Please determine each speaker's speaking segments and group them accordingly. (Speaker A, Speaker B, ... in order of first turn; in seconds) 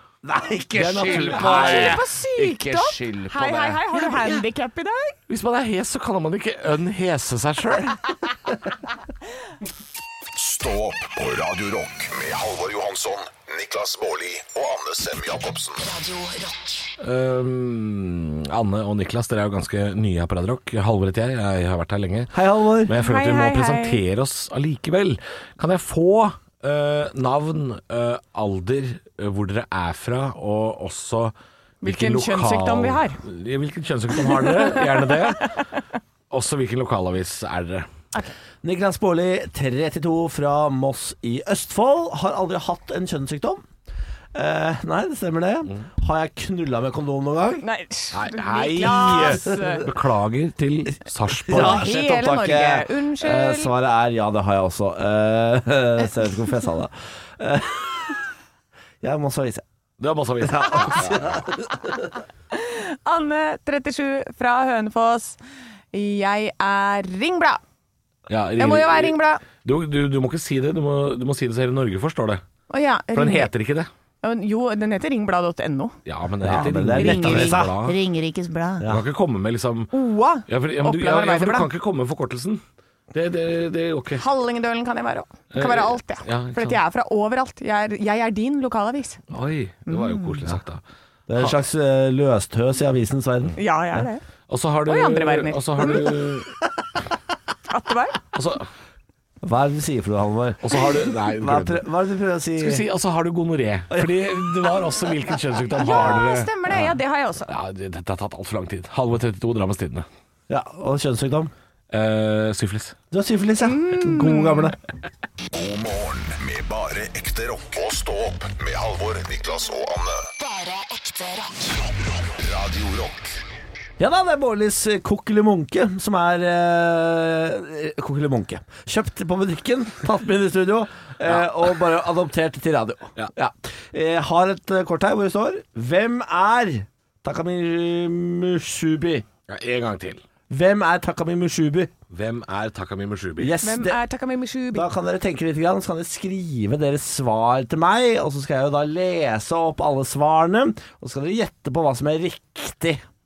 Speaker A: 0.2-4.3, 22.3-22.9, 38.6-43.6, 44.3-47.6, 51.4-58.2, 59.0-59.6, 60.4-62.1, 76.4-77.9, 78.8-79.1, 91.3-94.0, 99.4-102.8, 103.9-104.8, 105.8-106.2, 110.5-111.5, 113.1-114.8, 124.0-139.2, 140.5-141.9, 143.4-144.0, 144.7-153.0
Speaker B: 0.7-2.0, 5.3-8.0, 17.0-35.6, 36.3-37.9, 48.1-51.8, 60.0-61.4, 68.3-72.4, 73.1-73.9, 76.0-78.0, 78.9-79.9, 80.5-84.2, 85.5-86.8, 89.3-90.8, 94.5-96.5, 98.3-98.7, 100.6-101.8, 102.6-106.9, 107.5-110.0, 111.9-113.0, 139.5-140.2, 142.1-143.5
Speaker C: 1.3-5.2, 22.9-24.0, 31.8-33.2, 34.2-35.8, 47.6-49.8, 51.5-53.7, 62.5-65.4, 65.9-67.6, 68.6-69.4, 72.7-73.5, 74.2-76.0, 77.0-78.8, 79.9-81.7, 84.2-89.2, 89.9-90.5, 93.6-94.2, 94.8-96.2, 97.7-98.2, 105.7-107.5, 113.6-114.7, 143.6-144.9
Speaker D: 10.3-15.8, 115.5-120.3, 121.9-123.3
Speaker E: 15.8-16.9, 78.0-78.5, 120.4-121.8